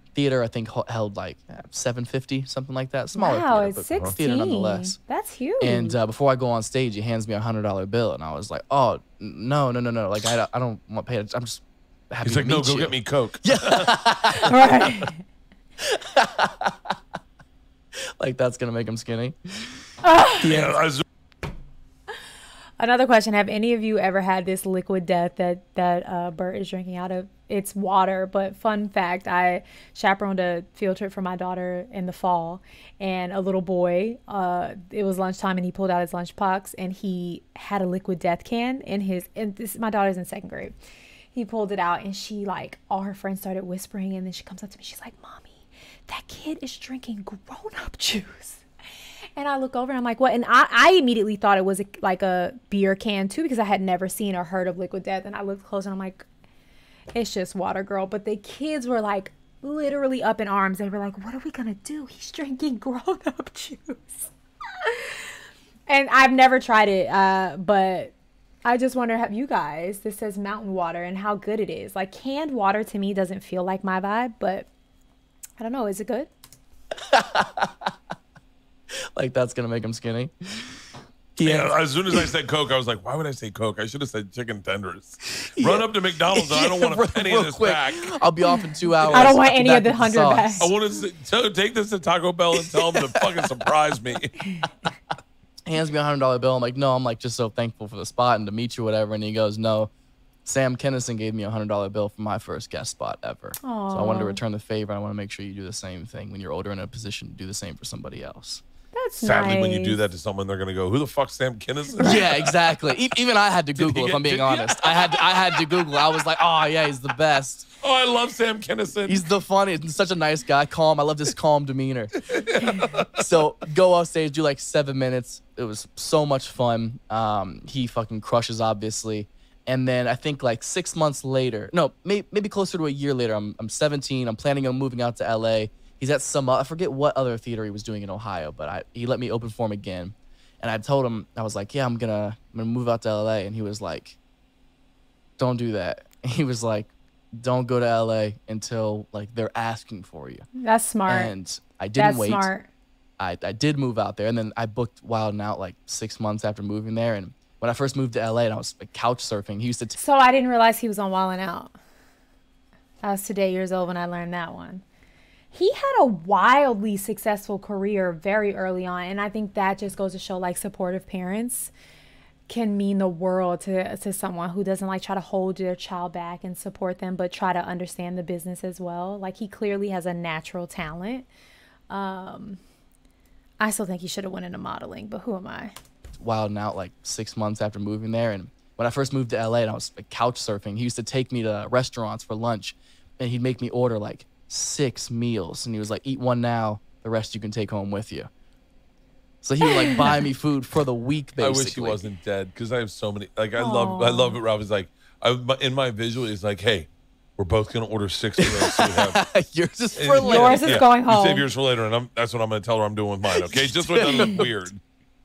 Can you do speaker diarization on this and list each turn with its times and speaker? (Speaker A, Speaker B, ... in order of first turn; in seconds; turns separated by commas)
Speaker A: 0.1-5.0, Speaker B: 3.1-6.0, Speaker A: 5.6-14.6, Speaker C: 12.2-13.9, Speaker B: 14.3-15.2, Speaker A: 15.8-16.9, Speaker A: 18.2-19.8, Speaker B: 20.0-20.5, Speaker A: 20.4-20.9, Speaker C: 20.5-21.0, Speaker B: 22.8-40.7, Speaker B: 41.3-48.6, Speaker B: 49.4-56.2, Speaker B: 57.1-64.3, Speaker B: 64.8-65.2, Speaker B: 65.9-74.7, Speaker B: 75.6-76.3, Speaker A: 77.1-77.9, Speaker A: 79.2-80.8, Speaker A: 81.3-82.3, Speaker C: 81.4-88.2, Speaker A: 85.2-90.6, Speaker C: 89.0-89.3, Speaker B: 89.1-90.7, Speaker C: 90.6-94.4, Speaker A: 92.5-93.5, Speaker A: 95.7-99.9, Speaker A: 100.4-108.6, Speaker B: 103.6-104.4, Speaker B: 108.9-110.0, Speaker C: 109.2-112.7, Speaker A: 112.0-117.7, Speaker C: 113.7-116.0, Speaker C: 117.8-119.2, Speaker A: 119.0-122.1, Speaker C: 122.3-123.4, Speaker A: 123.2-144.2, Speaker A: 145.4-150.4, Speaker B: 150.6-151.3, Speaker A: 151.1-152.5, Speaker B: 151.9-152.7, Speaker A: 153.2-160.0, Speaker B: 160.0-161.7, Speaker B: 163.0-164.8, Speaker B: 165.5-171.7, Speaker B: 172.5-181.3, Speaker B: 181.9-182.6, Speaker B: 183.6-185.7, Speaker A: 186.2-198.3, Speaker A: 199.4-202.0, Speaker C: 201.4-209.2, Speaker B: 203.6-204.4, Speaker A: 208.4-210.8, Speaker C: 209.9-214.8, Speaker B: 210.2-211.4, Speaker A: 213.3-214.7, Speaker B: 214.1-214.4